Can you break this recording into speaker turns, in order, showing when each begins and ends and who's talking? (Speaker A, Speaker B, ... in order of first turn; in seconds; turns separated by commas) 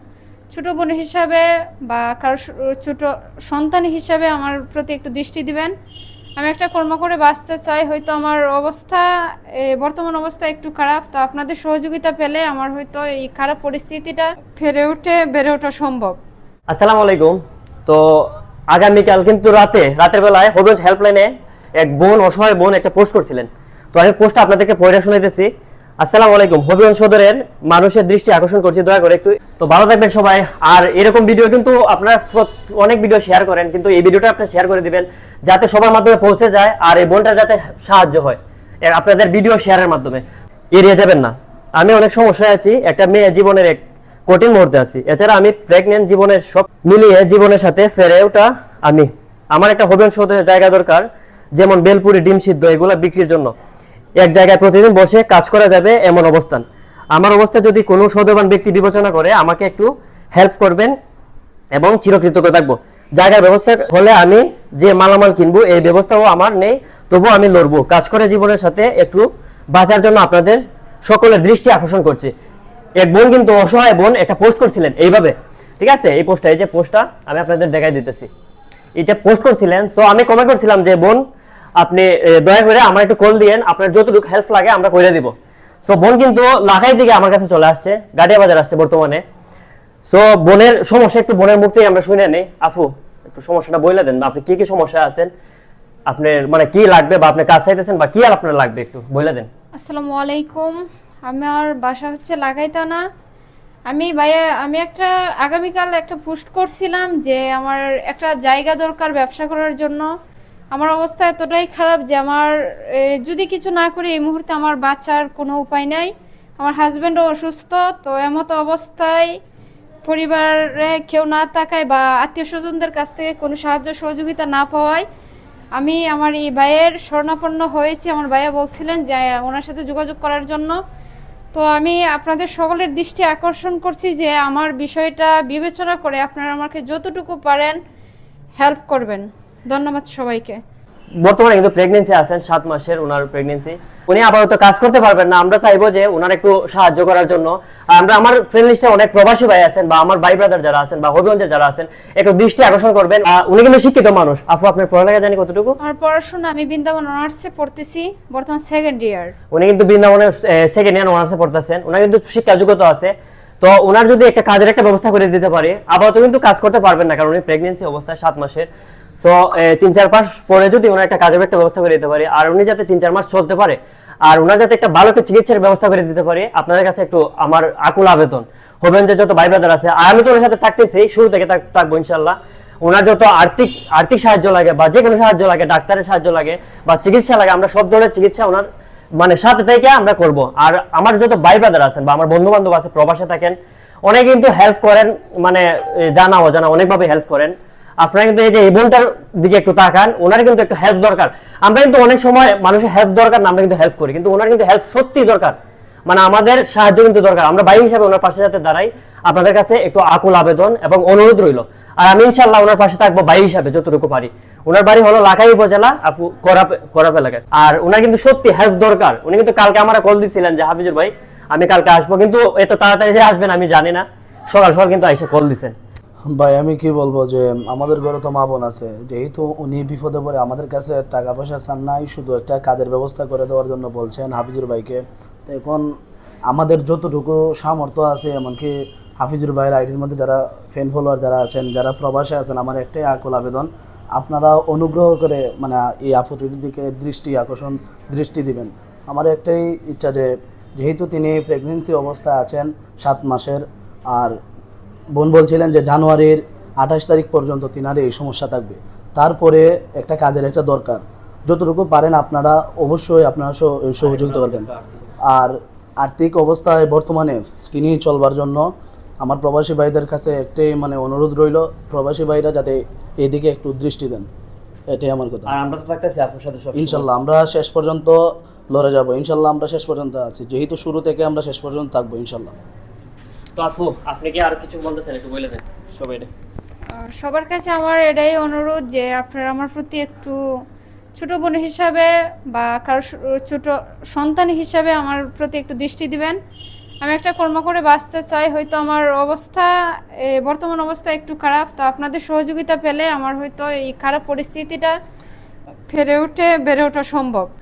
Speaker A: 0.5-5.7, Speaker A: 6.4-9.1, Speaker A: 9.6-16.2, Speaker B: 16.7-25.5, Speaker B: 26.0-53.5, Speaker B: 54.2-56.6, Speaker B: 57.1-61.0, Speaker B: 61.7-72.3, Speaker B: 73.0-78.3, Speaker B: 79.0-81.2, Speaker B: 81.8-85.3, Speaker B: 85.8-89.2, Speaker B: 90.1-95.3, Speaker B: 96.1-99.5, Speaker A: 99.8-103.0, Speaker A: 103.9-110.1, Speaker A: 110.7-119.3, Speaker A: 120.1-125.0, Speaker A: 125.8-130.8, Speaker A: 131.5-137.8, Speaker A: 138.6-140.6, Speaker B: 141.2-155.8, Speaker A: 155.8-159.3, Speaker B: 159.5-168.7, Speaker B: 169.2-188.7, Speaker B: 189.2-225.8, Speaker C: 226.3-235.8, Speaker C: 236.5-254.4, Speaker C: 255.2-264.7, Speaker B: 264.0-265.0, Speaker C: 265.3-268.7, Speaker C: 269.2-274.3, Speaker C: 274.9-275.6, Speaker B: 275.5-277.1, Speaker C: 276.8-278.2, Speaker C: 278.7-282.6, Speaker B: 283.6-286.3, Speaker A: 286.9-290.4, Speaker A: 291.1-296.4, Speaker A: 297.0-304.9, Speaker A: 305.9-307.5